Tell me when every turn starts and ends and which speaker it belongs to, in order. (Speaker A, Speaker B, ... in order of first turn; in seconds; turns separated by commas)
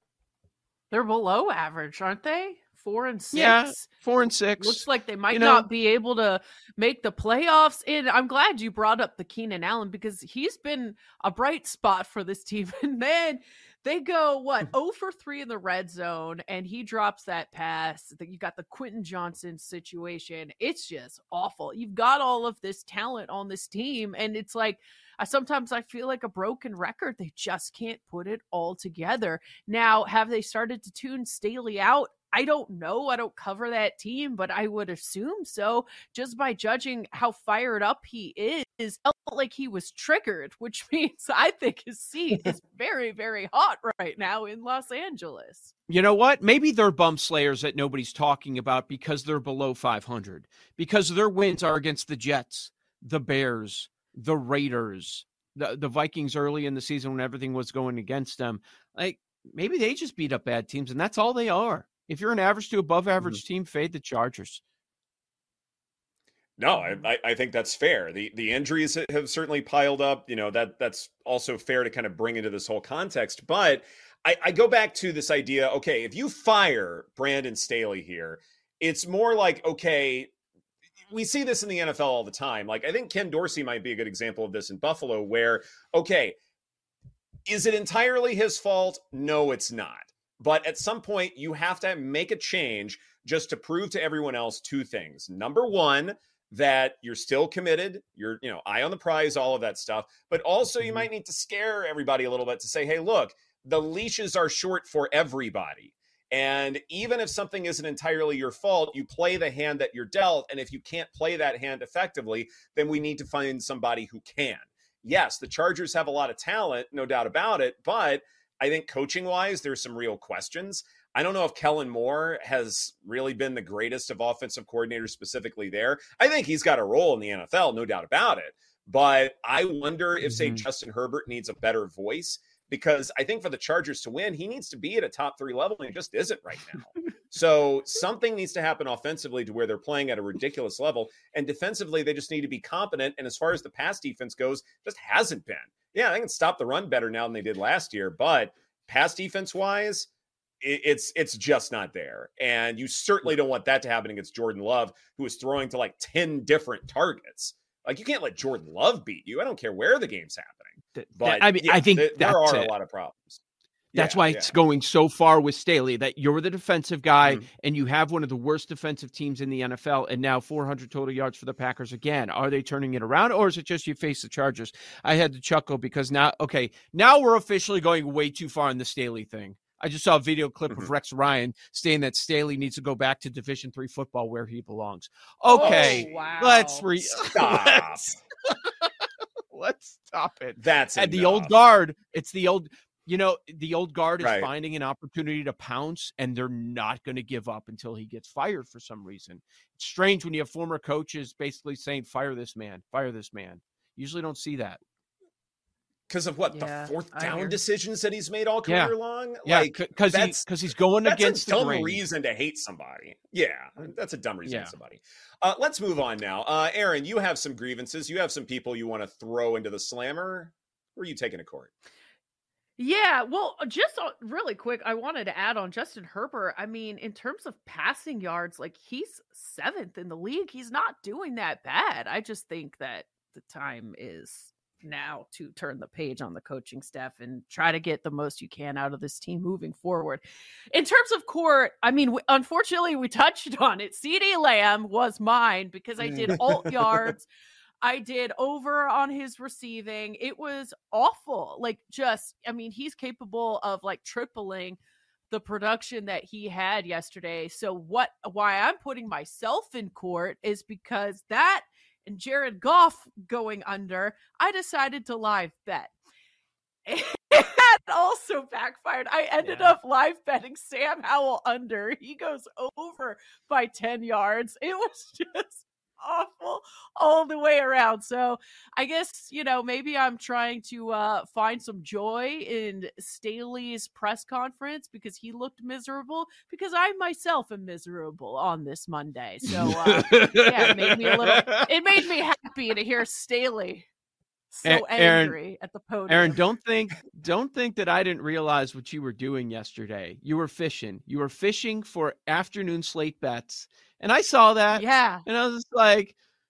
Speaker A: 0.9-3.9, Speaker B: 3.3-5.7, Speaker A: 4.6-45.7, Speaker B: 45.9-64.6, Speaker C: 66.6-80.3, Speaker C: 81.1-86.3, Speaker C: 87.5-150.1, Speaker B: 130.2-130.6, Speaker C: 150.6-163.4, Speaker B: 160.9-162.7, Speaker C: 163.9-164.5, Speaker B: 163.9-188.9, Speaker A: 185.5-186.8, Speaker C: 185.6-186.3, Speaker C: 187.0-188.1, Speaker B: 189.5-204.8, Speaker C: 190.6-191.5, Speaker C: 194.2-194.5, Speaker C: 206.1-210.4, Speaker A: 206.5-207.6, Speaker B: 208.7-212.0, Speaker C: 211.0-221.7, Speaker B: 214.4-214.7, Speaker A: 222.8-247.3, Speaker C: 246.3-246.6, Speaker A: 247.8-265.9, Speaker A: 266.9-293.9, Speaker B: 269.4-269.7, Speaker B: 289.9-291.7, Speaker A: 294.5-296.4, Speaker B: 294.6-295.4, Speaker B: 296.1-306.1, Speaker A: 304.7-305.2